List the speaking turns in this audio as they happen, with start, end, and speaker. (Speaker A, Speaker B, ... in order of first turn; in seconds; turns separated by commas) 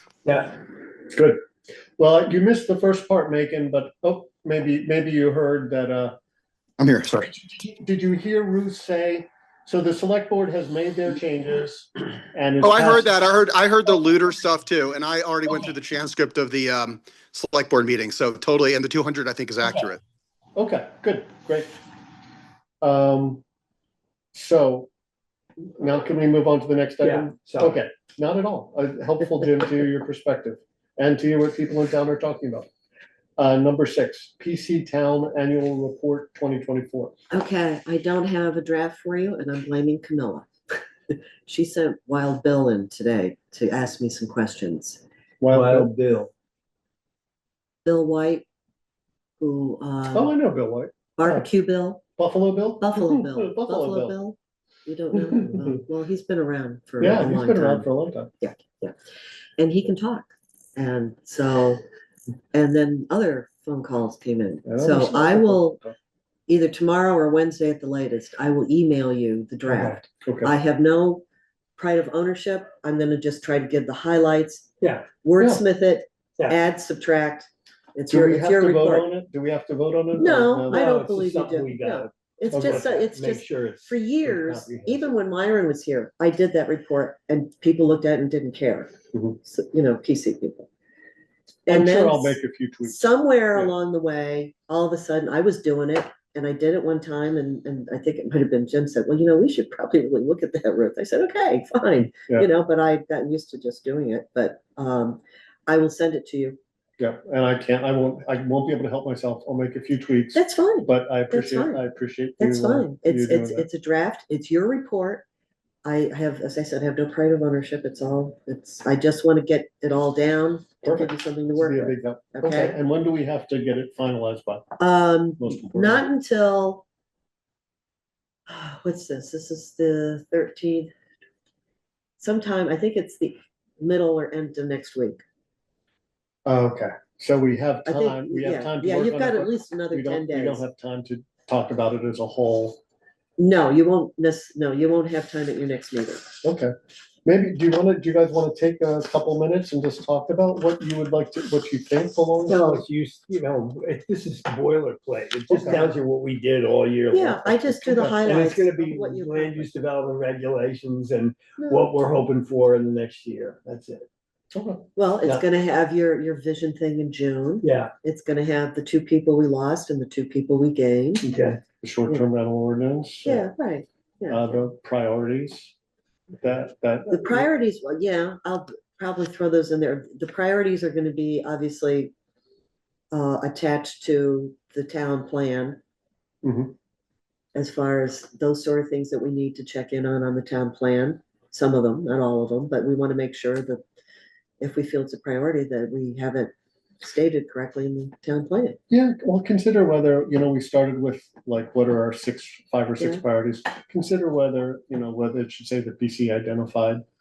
Speaker A: 0.2-0.6, Speaker B: 1.1-1.4, Speaker B: 2.0-6.2, Speaker C: 6.8-7.3, Speaker B: 7.3-13.1, Speaker C: 12.6-20.0, Speaker B: 20.6-21.7, Speaker B: 22.8-23.4, Speaker B: 24.3-24.9, Speaker B: 25.6-32.7, Speaker A: 27.0-27.8, Speaker B: 33.4-37.1, Speaker D: 37.3-40.5, Speaker D: 41.1-45.0, Speaker B: 45.4-45.9, Speaker A: 45.5-46.3, Speaker D: 47.9-48.5, Speaker D: 49.4-50.3, Speaker B: 50.1-51.5, Speaker D: 51.2-52.0, Speaker B: 52.2-54.2, Speaker D: 52.8-57.9, Speaker B: 55.1-55.6, Speaker B: 57.0-58.3, Speaker D: 58.4-59.0, Speaker D: 59.6-61.8, Speaker D: 62.5-65.8, Speaker B: 64.7-65.9, Speaker D: 66.5-71.2, Speaker A: 69.7-70.0, Speaker B: 70.2-70.5, Speaker D: 71.8-74.7, Speaker A: 74.8-75.1, Speaker D: 75.2-79.1, Speaker B: 78.1-80.8, Speaker D: 80.1-90.7, Speaker A: 80.7-85.1, Speaker B: 82.5-82.8, Speaker D: 91.7-106.6, Speaker B: 91.7-93.7, Speaker B: 107.0-113.7, Speaker D: 110.3-111.8, Speaker D: 112.4-115.3, Speaker D: 115.8-122.8, Speaker B: 120.8-124.7, Speaker D: 124.8-126.8, Speaker B: 125.4-126.1, Speaker D: 128.5-130.9, Speaker D: 132.2-135.2, Speaker B: 136.4-142.8, Speaker D: 137.8-140.7, Speaker D: 143.4-146.3, Speaker B: 146.4-146.7, Speaker B: 147.2-152.6, Speaker D: 152.4-152.8, Speaker A: 152.5-164.1, Speaker B: 155.5-156.0, Speaker D: 157.1-159.7, Speaker B: 157.9-158.3, Speaker D: 161.6-161.9, Speaker B: 164.5-164.9, Speaker D: 165.0-171.3, Speaker A: 167.6-167.9, Speaker A: 171.2-171.6, Speaker B: 171.8-173.5, Speaker D: 173.2-174.6, Speaker B: 174.3-175.7, Speaker B: 176.4-177.5, Speaker D: 177.1-182.1, Speaker D: 183.1-185.8, Speaker B: 186.4-186.7, Speaker D: 187.5-193.8, Speaker D: 194.6-198.8, Speaker B: 198.9-207.0